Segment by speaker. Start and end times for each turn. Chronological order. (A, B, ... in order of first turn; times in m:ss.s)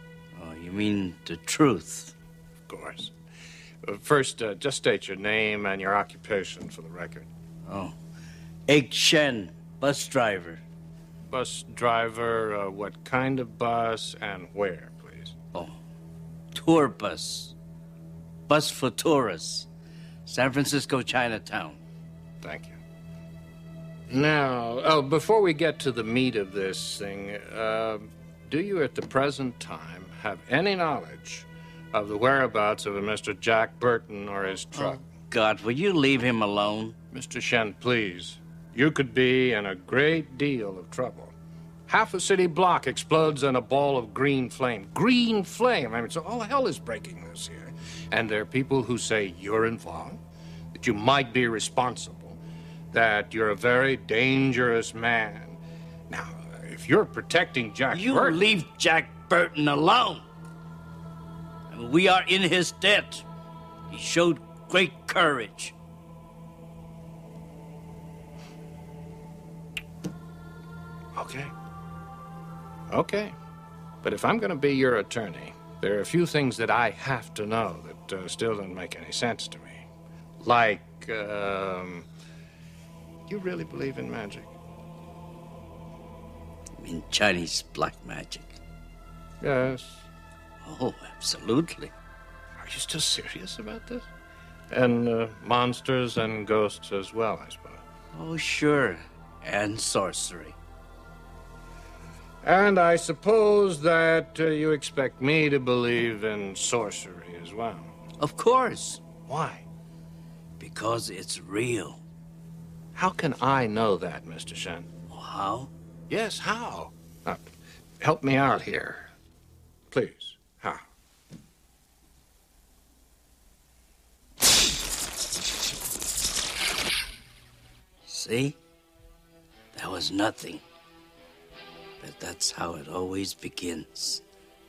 0:00.4-0:02.2 A
0:02.7-0:03.1 B
0:03.8-0:07.3 B
0:07.7-0:08.0 A
0:08.7-0:10.6 A
0:11.3-0:15.4 B
0:16.5-0:17.6 A
0:18.5-0:19.7 A
0:20.3-0:21.8 A
0:22.4-0:22.8 B
0:24.1-0:35.0 B
0:34.7-0:37.0 A
0:37.1-0:41.3 B
0:41.9-0:50.2 B
0:50.7-0:52.4 B
0:52.9-0:58.4 B
0:57.9-1:00.3 A
1:01.7-1:03.2 A
1:03.9-1:05.8 A
1:11.2-1:11.5 B
1:12.9-1:13.4 B
1:14.0-1:19.9 B
1:20.4-1:22.1 B
1:23.3-1:24.5 B
1:26.8-1:28.6 A
1:29.4-1:30.1 B
1:30.6-1:31.9 A
1:32.6-1:34.1 B
1:34.7-1:37.8 B
1:38.1-1:40.6 A
1:42.4-1:47.9 B
1:48.2-1:49.0 A
1:49.3-1:49.7 B
1:50.6-1:52.0 A
1:53.0-1:54.9 B
1:55.1-1:55.7 A
1:56.1-1:57.5 B
1:58.0-1:59.1 B
1:59.9-2:00.8 B
2:08.0-2:08.6 A
2:09.7-2:10.6 A
2:12.0-2:14.2 A